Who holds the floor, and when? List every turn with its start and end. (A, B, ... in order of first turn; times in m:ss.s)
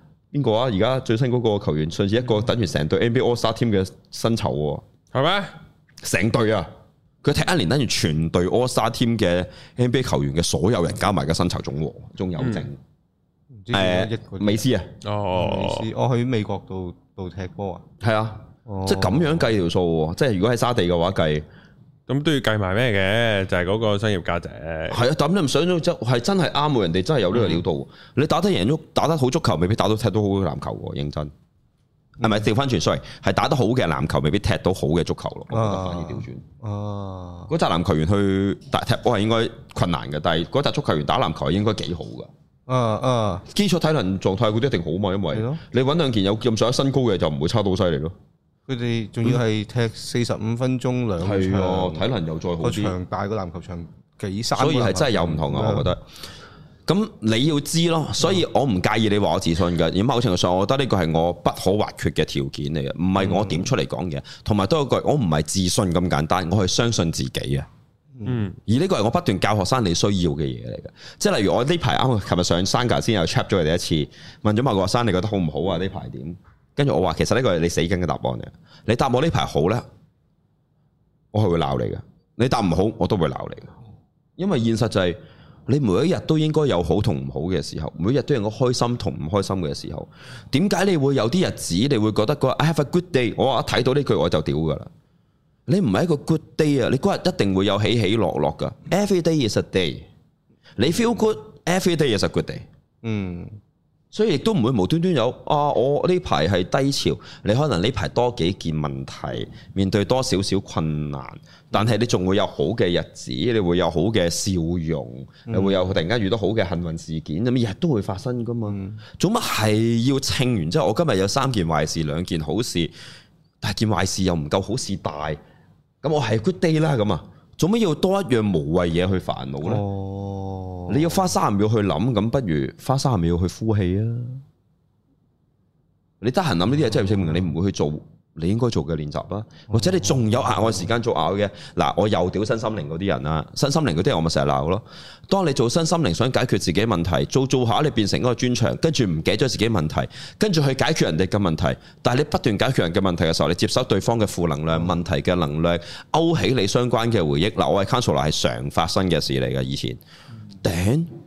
0:00.3-0:04.8 A
0:05.1-0:05.6 B
0:06.0-0:06.7 A
0:07.2-0:12.8 A
0:12.4-0:12.7 B
0:13.6-0:14.7 C
0:13.7-0:14.9 A
0:15.0-0:15.9 B
0:15.3-0:17.8 C
0:18.0-0:21.4 A
0:18.7-0:19.4 C
0:22.1-0:25.0 B
0:24.9-0:31.3 A
0:32.2-0:36.4 A
0:35.5-0:37.5 C
0:37.5-0:42.3 A
0:42.7-0:43.4 C
0:43.5-0:48.1 A
0:45.3-0:45.6 C
0:48.7-0:52.0 C
0:51.2-0:52.9 A
0:52.6-0:55.9 C
0:54.5-0:56.0 A
0:56.8-1:07.7 A
1:03.2-1:03.7 C
1:08.2-1:08.4 C
1:08.2-1:08.6 B
1:08.7-1:19.8 A
1:21.3-1:23.7 A
1:24.4-1:34.9 A
1:35.7-1:40.1 A
1:40.8-1:42.6 A
1:43.0-1:43.6 C
1:44.1-2:02.9 A
1:55.5-1:55.9 C
1:58.7-1:59.0 C
2:03.6-2:05.4 A
2:06.0-2:09.8 A
2:09.6-2:11.2 C
2:10.9-2:14.4 A
2:16.2-2:40.0 A
2:19.7-2:20.1 C
2:40.6-2:41.1 A